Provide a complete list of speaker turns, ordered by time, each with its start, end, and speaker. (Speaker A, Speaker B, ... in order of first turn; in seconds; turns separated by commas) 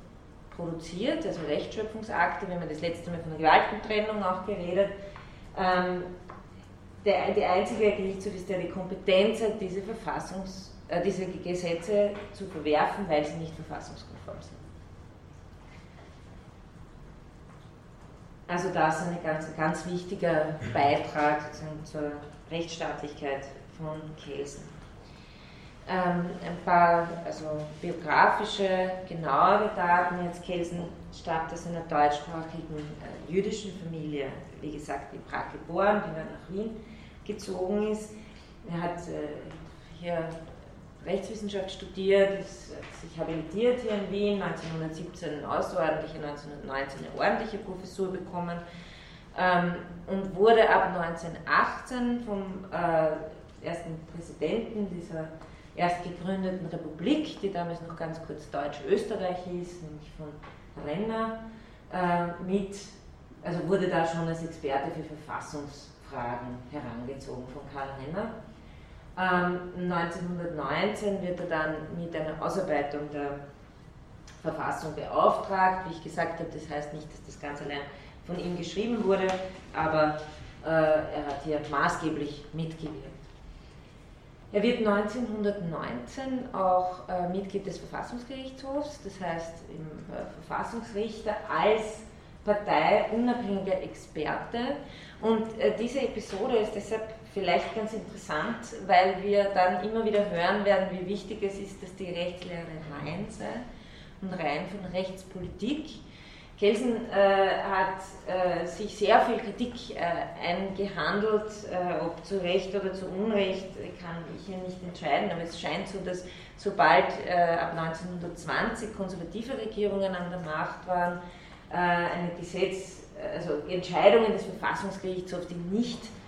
Speaker A: 0.5-4.9, Speaker A: 5.5-6.1, Speaker A: 7.0-14.6, Speaker A: 18.5-24.7, Speaker A: 25.9-38.1, Speaker A: 38.6-40.4, Speaker A: 41.0-48.6, Speaker A: 49.3-61.4, Speaker A: 61.9-68.3, Speaker A: 69.2-73.4, Speaker A: 74.4-83.2, Speaker A: 84.5-103.6, Speaker A: 104.2-106.0, Speaker A: 106.6-121.2, Speaker A: 121.7-126.1